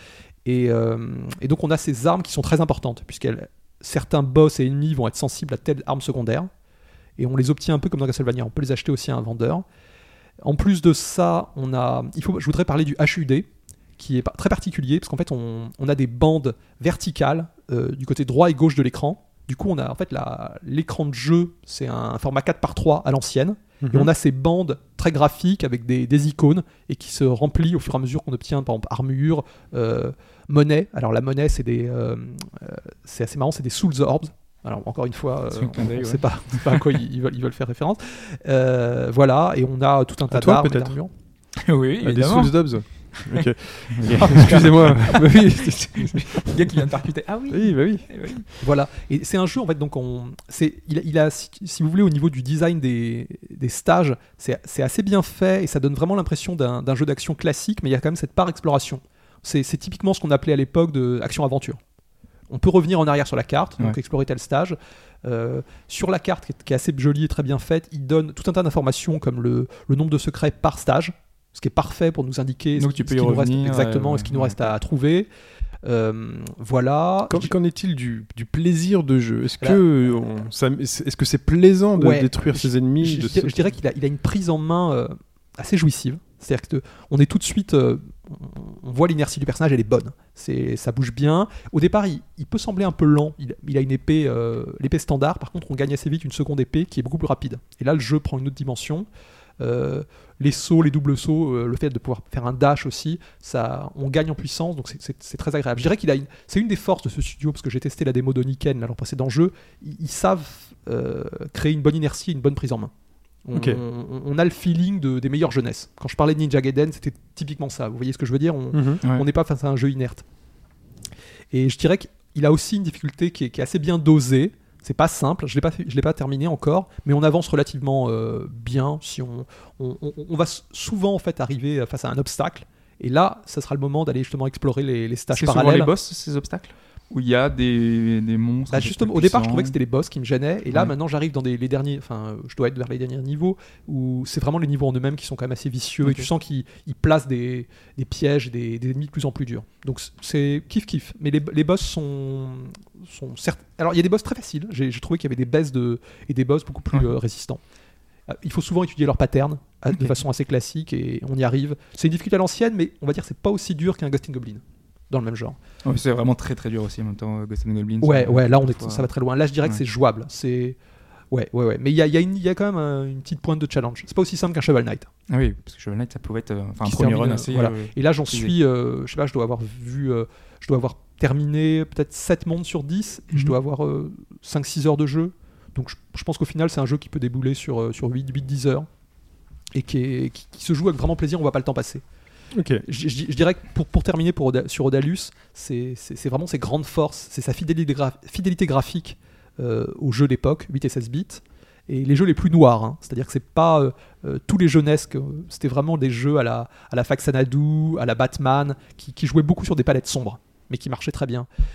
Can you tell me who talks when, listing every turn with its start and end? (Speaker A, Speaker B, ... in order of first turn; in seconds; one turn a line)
Speaker A: 0.4-6.5
Speaker A: 7.2-9.6
Speaker A: 10.4-13.5
Speaker A: 14.0-41.1
Speaker B: 23.8-24.1
Speaker C: 35.5-36.9
Speaker B: 40.3-40.9
Speaker C: 41.6-48.5
Speaker B: 42.0-46.8
Speaker B: 47.5-48.1
Speaker A: 48.6-61.8
Speaker A: 62.5-75.3
Speaker C: 72.8-74.6
Speaker A: 75.8-77.5
Speaker B: 77.3-83.7
Speaker A: 82.0-99.1
Speaker A: 99.6-112.9
Speaker A: 113.4-120.2
Speaker B: 113.5-113.8
Speaker B: 118.7-119.0
Speaker A: 121.5-135.9
Speaker C: 135.3-139.7
Speaker A: 138.7-157.6
Speaker A: 158.3-165.6
Speaker C: 165.8-169.1
Speaker A: 168.0-170.8
Speaker A: 171.3-175.1
Speaker C: 175.3-178.6
Speaker A: 176.8-188.9
Speaker A: 189.7-192.0
Speaker B: 192.5-192.8
Speaker A: 192.8-211.5